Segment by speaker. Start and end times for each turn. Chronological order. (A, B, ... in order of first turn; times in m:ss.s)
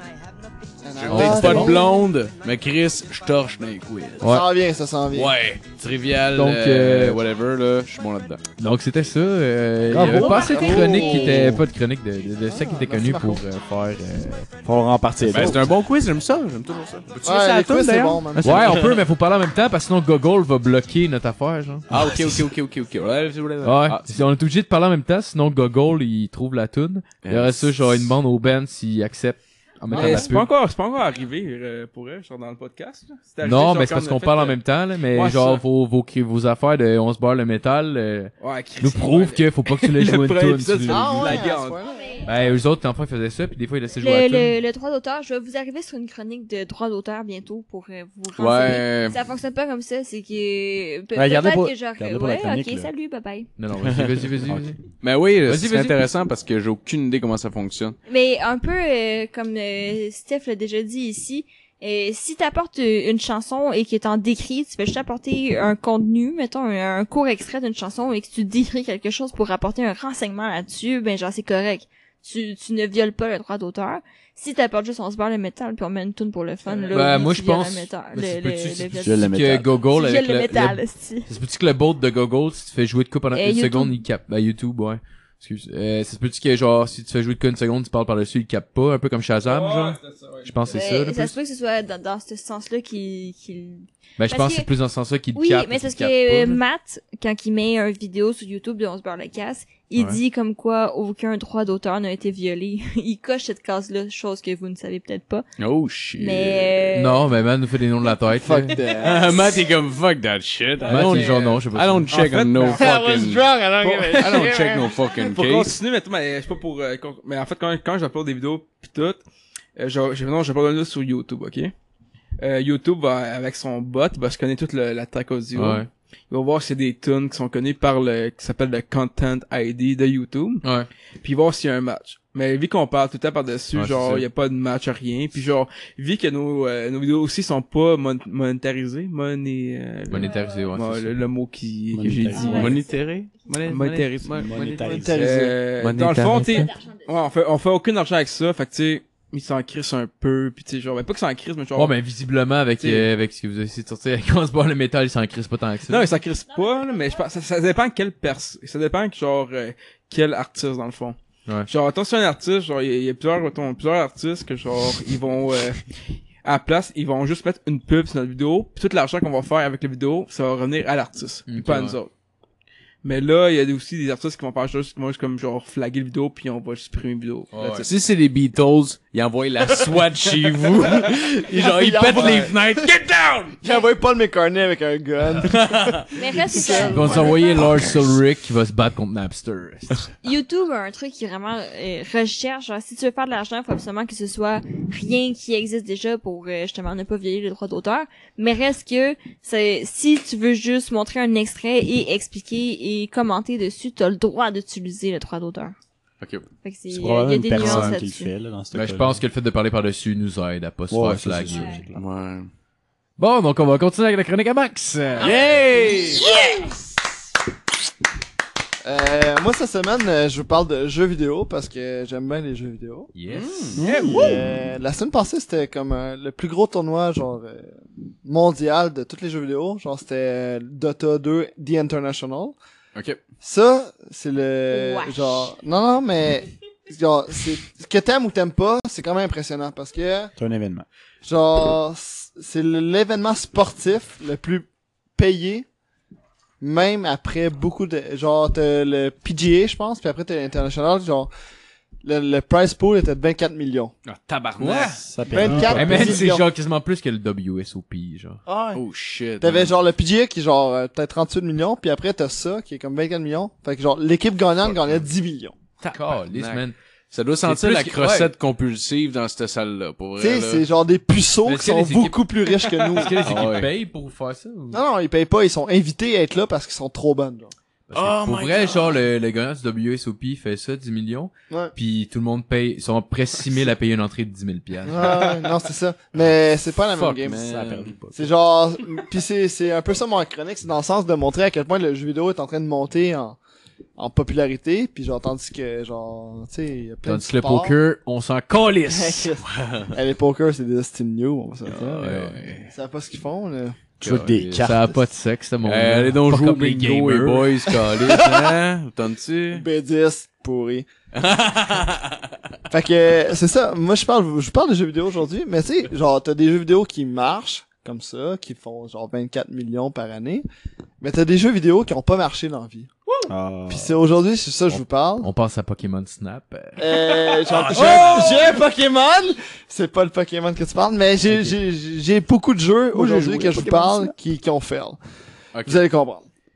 0:00.8-0:02.0 A
0:01.0-0:04.3 B
0:01.1-0:01.7 C
0:01.4-0:01.6 D
0:04.2-0:04.4 C
0:04.2-0:05.3 A
0:05.1-0:08.4 B
0:06.3-0:07.2 C
0:08.6-0:14.5 C
0:09.9-0:10.5 D
0:09.9-0:10.4 B
0:10.0-0:11.5 A
0:10.9-0:11.4 B
0:12.5-0:13.4 A
0:14.6-0:15.6 D
0:15.3-0:18.9 B
0:17.2-0:18.7 A
0:18.4-0:21.8 C
0:21.9-0:24.2 B
0:21.9-0:22.4 D
0:23.6-0:30.5 C
0:27.2-0:28.1 B
0:29.9-0:35.6 E
0:33.4-0:41.4 C
0:38.4-0:41.8 E
0:40.9-0:42.2 A
0:42.2-0:44.6 C
0:44.0-0:53.5 F
0:48.4-0:49.2 B
0:51.1-0:52.9 D
0:53.6-0:54.8 C
0:53.9-0:54.2 B
0:55.0-0:58.0 B
0:55.4-0:56.0 C
0:58.1-1:19.3 F
1:16.6-1:17.2 E
1:16.9-1:31.3 C
1:19.0-1:19.7 D
1:19.8-1:21.3 F
1:23.3-1:24.0 F
1:29.4-1:30.8 E
1:30.7-1:34.7 F
1:34.2-1:36.6 C
1:35.3-1:45.4 F
1:40.0-1:40.2 C
1:45.6-1:47.0 B
1:46.2-1:47.2 F
1:46.9-1:48.8 C
1:48.3-1:49.6 A
1:49.0-1:53.5 B
1:50.8-1:53.1 E
1:50.8-1:52.1 C
1:52.8-1:55.0 A
1:53.8-1:59.2 E
1:54.1-1:55.7 B
1:59.8-2:01.7 E
2:02.4-2:10.6 E
2:05.5-2:05.9 C
2:10.6-2:10.9 C
2:11.2-2:22.7 E
2:13.7-2:14.2 C
2:20.1-2:21.1 C
2:21.9-2:22.8 D
2:22.3-2:22.8 F
2:22.5-2:24.7 B
2:23.6-2:31.9 E
2:24.3-2:25.2 D
2:24.7-2:25.6 A
2:25.8-2:26.7 B
2:26.0-2:26.6 C
2:26.7-2:27.0 F
2:31.8-2:36.1 C
2:32.8-2:33.1 E
2:35.9-2:45.9 E
2:46.4-2:52.1 E
2:51.5-2:52.0 C
2:53.0-2:57.9 E
2:57.5-2:57.9 C
2:57.8-3:03.6 B
3:01.5-3:02.9 A
3:03.6-3:07.6 A
3:05.4-3:06.1 B
3:06.1-3:08.0 F
3:06.8-3:10.0 C
3:07.6-3:08.0 B
3:10.2-3:25.7 F
3:26.2-3:26.4 B
3:26.6-3:28.3 F
3:26.9-3:29.2 D
3:27.6-3:27.9 C
3:28.7-3:31.8 C
3:30.9-3:32.0 D
3:31.9-3:32.5 B
3:33.2-3:35.4 C
3:35.2-3:36.4 B
3:35.9-3:36.7 F
3:36.0-3:36.7 A
3:38.8-3:43.1 A
3:43.1-3:43.7 C
3:43.3-3:43.8 B
3:43.8-3:44.6 D
3:43.8-3:52.5 A
3:53.4-4:00.3 A
3:54.7-3:55.5 F
4:00.4-4:00.8 D
4:01.2-4:05.6 A
4:06.6-4:11.3 A
4:12.0-4:13.9 A
4:14.0-4:15.8 B
4:14.6-4:15.0 C
4:15.0-4:16.2 D
4:15.3-4:16.5 A
4:15.7-4:18.4 C
4:18.4-4:18.8 A
4:18.7-4:19.7 B
4:19.4-4:25.5 A
4:24.6-4:25.0 B
4:25.8-4:30.6 B
4:25.8-4:26.8 C
4:27.4-4:28.3 C
4:30.2-4:33.2 A
4:31.4-4:32.2 C
4:32.9-4:34.8 C
4:33.2-4:33.7 B
4:34.7-4:37.5 A
4:37.9-4:45.2 C
4:37.9-4:39.0 B
4:44.8-4:53.4 A
4:46.9-4:48.1 B
4:47.6-4:48.3 D
4:54.0-4:57.8 A
4:57.0-4:59.3 C
4:58.9-5:03.9 A
4:59.4-4:59.9 B
5:01.7-5:02.7 B
5:01.9-5:02.7 C
5:04.0-5:04.6 B
5:04.0-5:04.9 D
5:04.0-5:07.6 C
5:05.6-5:09.6 B
5:07.9-5:08.5 A
5:09.5-5:10.9 A
5:11.1-5:12.2 B
5:12.7-5:20.4 A
5:21.0-5:22.9 A
5:23.3-5:24.0 D
5:23.7-5:25.3 A
5:24.7-5:27.2 C
5:26.8-5:35.0 A
5:27.5-5:28.6 B
5:27.7-5:28.4 C
5:32.9-5:33.9 D
5:35.5-5:35.8 B
5:35.6-5:36.2 A